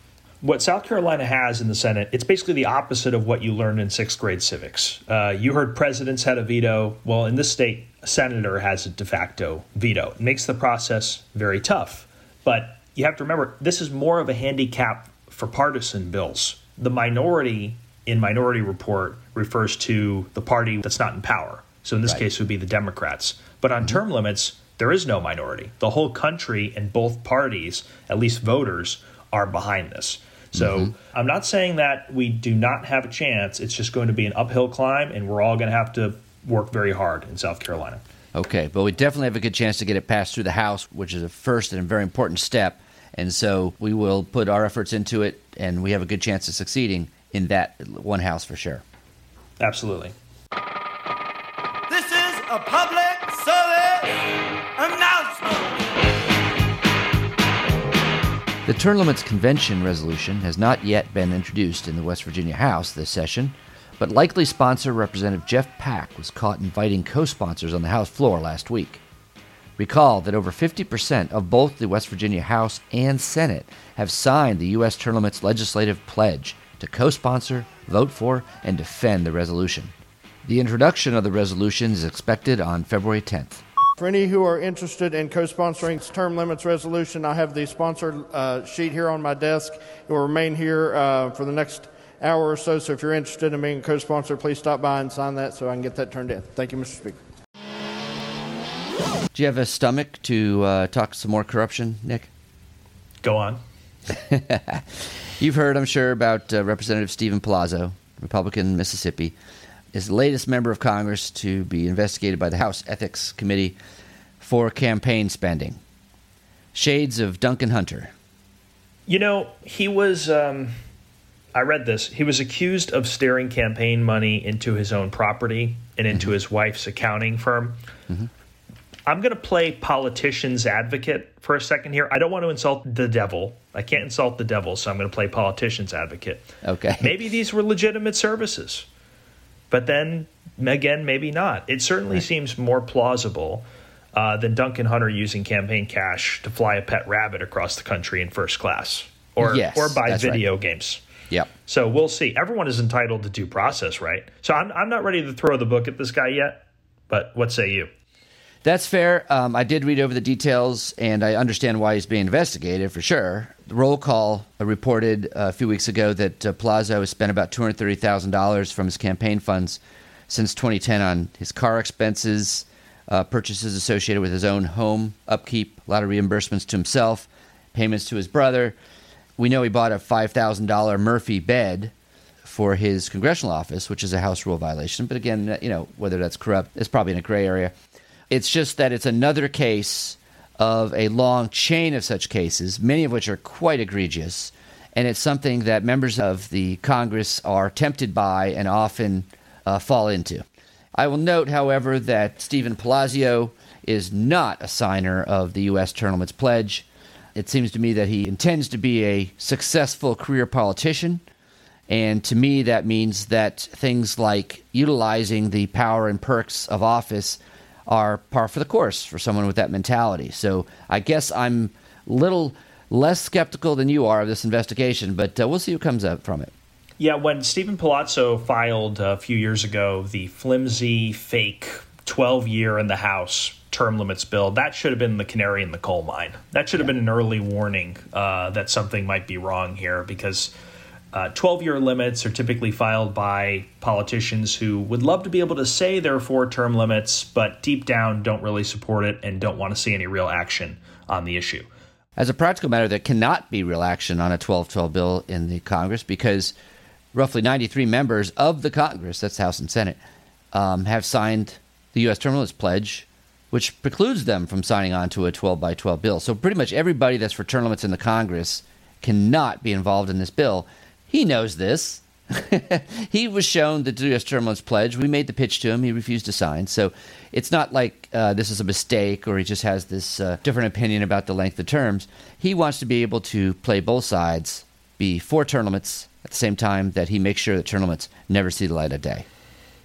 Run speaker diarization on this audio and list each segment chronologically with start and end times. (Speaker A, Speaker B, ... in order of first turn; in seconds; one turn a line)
Speaker A: 0.4-38.0
Speaker B: 30.5-30.9
Speaker B: 38.3-48.8
Speaker A: 49.6-50.1
Speaker C: 51.9-54.2
Speaker C: 54.8-55.8
Speaker B: 58.6-69.0
Speaker B: 69.8-79.9
Speaker B: 80.4-83.6
Speaker D: 84.0-97.2
Speaker B: 99.3-102.3
Speaker A: 103.2-103.6
Speaker B: 104.1-109.3
Speaker B: 109.9-113.8
Speaker B: 114.4-115.8
Speaker B: 116.7-118.1
Speaker A: 119.1-120.7
Speaker A: 121.5-127.8
Speaker A: 129.1-138.8
Speaker B: 136.6-137.1
Speaker A: 139.7-151.0
Speaker B: 149.4-150.4
Speaker A: 151.7-157.9
Speaker B: 158.6-178.8
Speaker B: 179.4-187.7
Speaker B: 188.3-200.4
Speaker B: 200.9-211.2
Speaker B: 211.9-226.5
Speaker A: 227.0-240.5
Speaker A: 241.1-251.7
Speaker B: 252.2-256.5
Speaker B: 257.1-260.0
Speaker B: 260.5-289.2